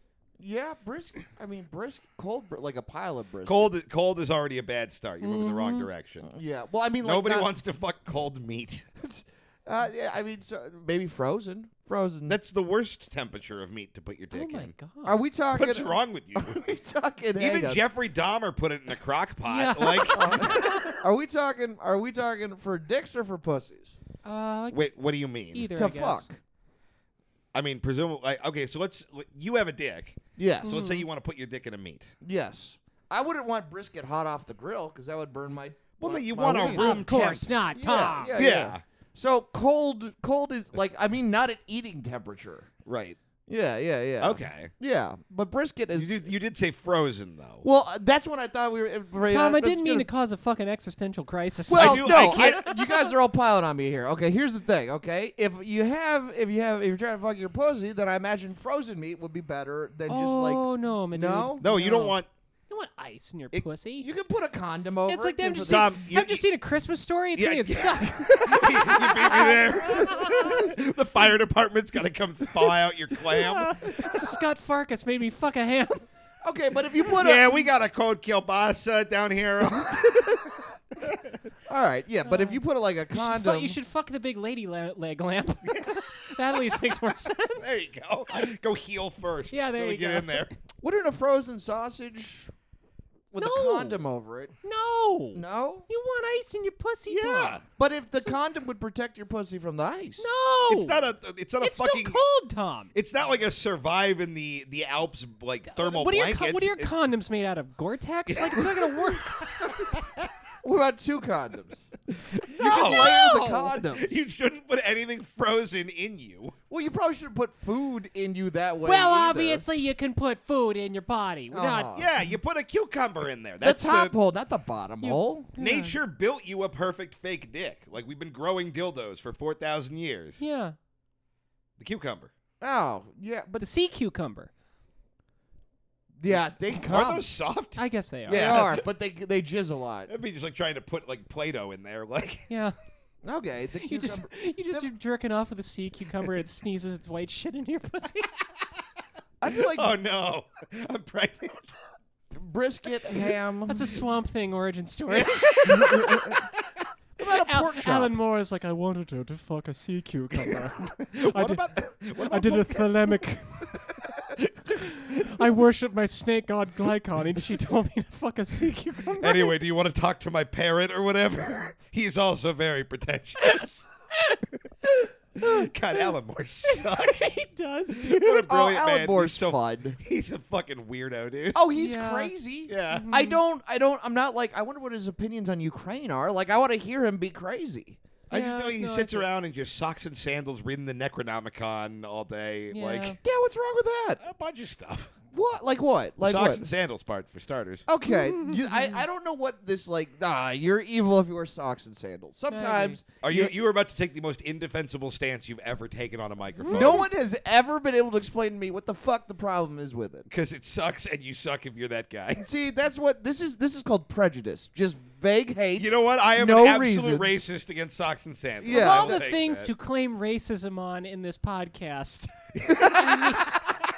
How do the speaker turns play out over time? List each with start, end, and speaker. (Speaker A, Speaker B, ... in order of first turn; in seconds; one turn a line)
Speaker A: 0.4-3.7
Speaker B: 3.5-6.3
Speaker C: 5.2-5.9
Speaker A: 6.2-7.5
Speaker B: 7.0-8.8
Speaker A: 9.0-12.4
Speaker B: 12.3-14.7
Speaker C: 14.3-15.2
Speaker A: 15.0-17.8
Speaker B: 15.5-16.6
Speaker B: 17.4-20.8
Speaker C: 19.5-21.0
Speaker A: 20.1-24.0
Speaker C: 24.2-24.9
Speaker B: 24.7-25.7
Speaker C: 25.5-26.3
Speaker A: 25.7-26.4
Speaker B: 27.5-32.1
Speaker A: 30.4-30.8
Speaker C: 30.6-31.1
Speaker A: 32.2-37.0
Speaker B: 36.0-37.5
Speaker C: 36.5-38.4
Speaker A: 37.7-42.7
Speaker B: 38.4-38.8
Speaker B: 42.9-43.2
Speaker A: 43.5-46.1
Speaker B: 44.2-44.7
Speaker B: 45.9-47.6
Speaker A: 47.6-50.1
Speaker C: 49.2-53.1
Speaker A: 51.7-61.6
Speaker B: 51.7-52.7
Speaker C: 60.1-62.2
Speaker B: 61.6-62.3
Speaker C: 62.7-64.1
Speaker A: 64.0-65.9
Speaker C: 65.1-70.7
Speaker B: 65.6-66.4
Speaker B: 67.3-74.0
Speaker C: 73.3-76.0
Speaker A: 76.4-77.6
Speaker B: 77.1-80.4
Speaker A: 80.0-80.4
Speaker B: 81.0-81.3
Speaker A: 81.7-83.8
Speaker C: 82.2-82.6
Speaker C: 83.1-87.8
Speaker B: 85.7-86.0
Speaker B: 87.6-90.5
Speaker C: 89.5-90.5
Speaker A: 90.8-92.5
Speaker A: 93.3-94.5
Speaker C: 93.4-94.0
Speaker C: 94.6-97.6
Speaker A: 95.3-95.9
Speaker B: 97.1-97.6
Speaker A: 97.8-100.3
Speaker C: 100.2-101.0
Speaker B: 100.7-102.2
Speaker C: 101.6-102.9
Speaker B: 102.9-106.9
Speaker C: 105.7-110.2
Speaker B: 108.3-109.1
Speaker A: 110.6-111.9
Speaker B: 112.1-116.5
Speaker C: 112.5-113.5
Speaker A: 112.6-114.2
Speaker A: 116.7-119.6
Speaker C: 118.8-121.9
Speaker A: 121.5-122.2
Speaker B: 121.9-124.1
Speaker A: 123.6-125.5
Speaker C: 125.0-126.0
Speaker B: 125.6-130.4
Speaker C: 130.4-130.8
Speaker B: 131.8-132.3
Speaker A: 132.6-133.7
Speaker C: 133.6-134.5
Speaker A: 136.2-137.3
Speaker B: 136.3-138.8
Speaker C: 137.8-138.6
Speaker A: 138.3-140.1
Speaker B: 140.1-142.5
Speaker C: 142.5-142.7
Speaker A: 143.2-144.8
Speaker C: 143.8-148.4
Speaker A: 149.4-149.9
Speaker B: 149.6-151.8
Speaker A: 152.3-153.9
Speaker C: 153.7-156.2
Speaker B: 155.1-156.6
Speaker A: 155.7-156.4
Speaker A: 157.2-158.1
Speaker C: 157.2-163.7
Speaker B: 161.0-163.2
Speaker B: 164.3-165.3
Speaker C: 164.7-169.5
Speaker B: 169.2-173.9
Speaker C: 174.3-176.1
Speaker B: 175.4-177.3
Speaker C: 176.6-178.5
Speaker B: 178.0-181.6
Speaker A: 178.5-180.0
Speaker A: 181.5-188.0
Speaker C: 181.7-182.3
Speaker B: 182.7-183.1
Speaker C: 182.9-183.4
Speaker B: 188.3-193.2
Speaker C: 188.3-189.2
Speaker C: 192.7-193.2
Speaker A: 193.2-194.2
Speaker B: 194.2-195.1
Speaker A: 195.3-196.7
Speaker B: 196.2-197.9
Speaker A: 197.9-203.5
Speaker C: 198.1-199.0
Speaker C: 202.5-203.0
Speaker B: 203.2-207.1
Speaker C: 206.6-207.0
Speaker A: 206.7-210.3
Speaker B: 210.3-212.5
Speaker A: 212.4-217.5
Speaker B: 215.8-219.7
Speaker A: 218.6-219.2
Speaker C: 218.7-223.7
Speaker B: 222.6-223.3
Speaker A: 222.7-223.1